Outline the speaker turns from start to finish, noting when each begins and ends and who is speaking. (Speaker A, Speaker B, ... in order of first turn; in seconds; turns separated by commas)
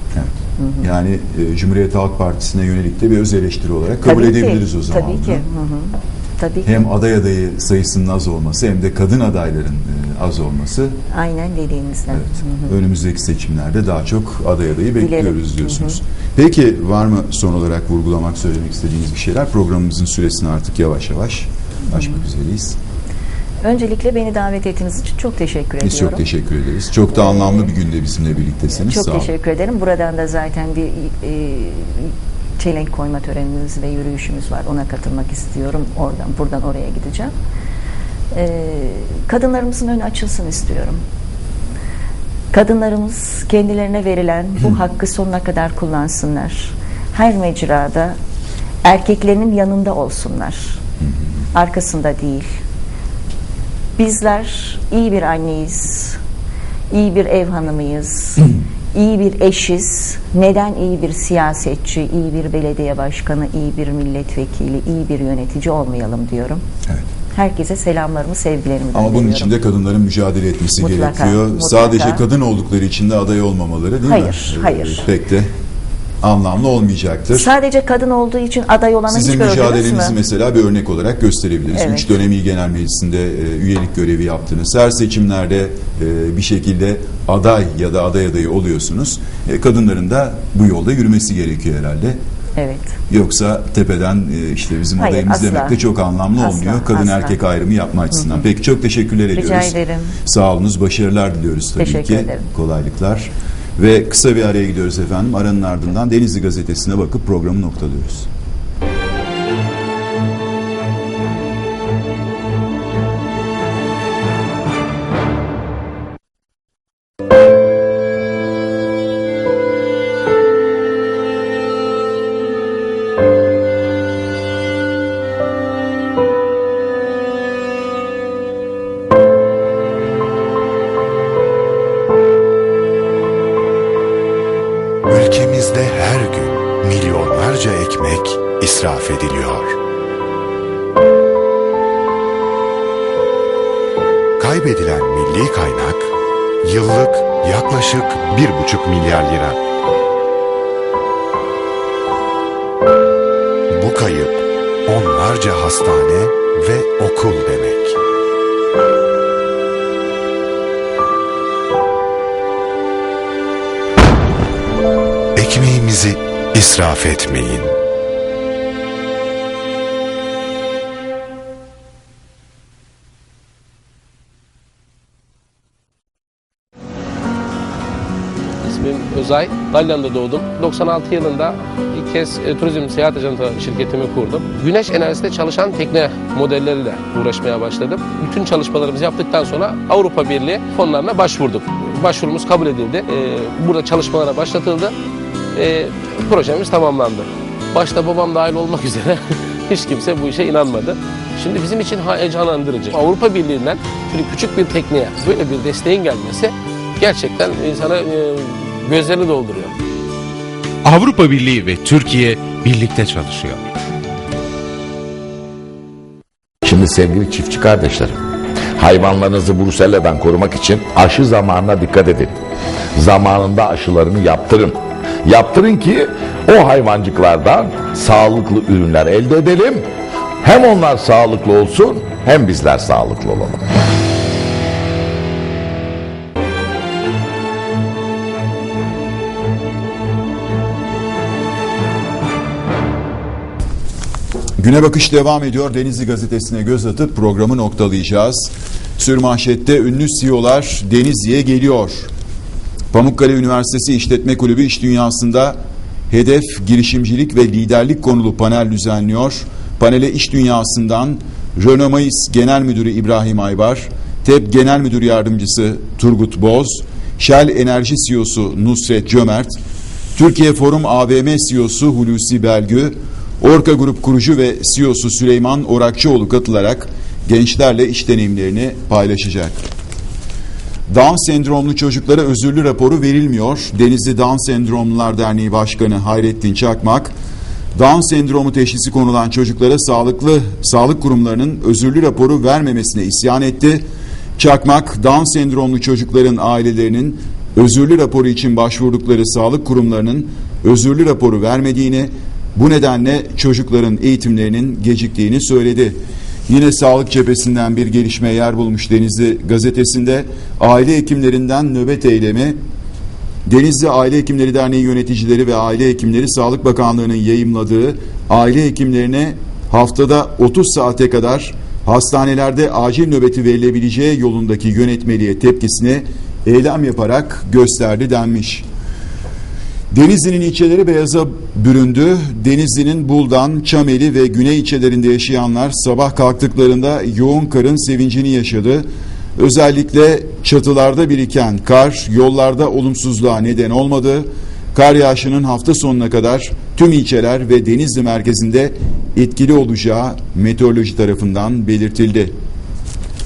Speaker A: 0.1-5.5, Speaker B: 0.6-0.8, Speaker B: 4.0-6.8, Speaker A: 6.6-10.9, Speaker B: 11.1-12.7, Speaker A: 12.1-22.8, Speaker B: 15.0-16.0, Speaker B: 21.9-22.2, Speaker B: 23.6-26.2, Speaker A: 25.8-29.3, Speaker B: 27.1-27.7, Speaker B: 28.7-37.3, Speaker B: 38.3-41.0, Speaker B: 42.5-48.1, Speaker B: 48.8-50.8, Speaker B: 51.5-52.5, Speaker B: 54.0-56.2, Speaker B: 56.9-66.6, Speaker B: 67.3-69.5, Speaker A: 68.9-75.5, Speaker B: 70.8-72.2, Speaker B: 74.0-75.1, Speaker A: 76.2-77.5, Speaker B: 77.3-80.2, Speaker A: 79.1-92.2, Speaker B: 81.7-82.1, Speaker B: 92.6-93.0, Speaker A: 93.1-108.3, Speaker B: 95.0-95.8, Speaker B: 96.4-97.4, Speaker B: 98.1-98.4, Speaker B: 99.3-100.2, Speaker B: 101.8-102.5, Speaker C: 135.1-139.8, Speaker C: 144.4-149.6, Speaker C: 153.7-158.0, Speaker C: 165.3-167.7, Speaker D: 178.6-194.9, Speaker D: 195.5-209.7, Speaker C: 210.8-213.6, Speaker E: 216.6-218.2, Speaker E: 218.8-222.3, Speaker E: 222.9-229.9, Speaker E: 230.4-233.7, Speaker A: 244.6-252.1, Speaker A: 252.9-255.6, Speaker A: 256.1-269.5, Speaker A: 270.1-279.5, Speaker A: 280.9-287.1, Speaker A: 287.7-293.8, Speaker A: 294.4-312.6, Speaker A: 313.4-328.6, Speaker A: 329.9-338.8, Speaker A: 339.4-352.3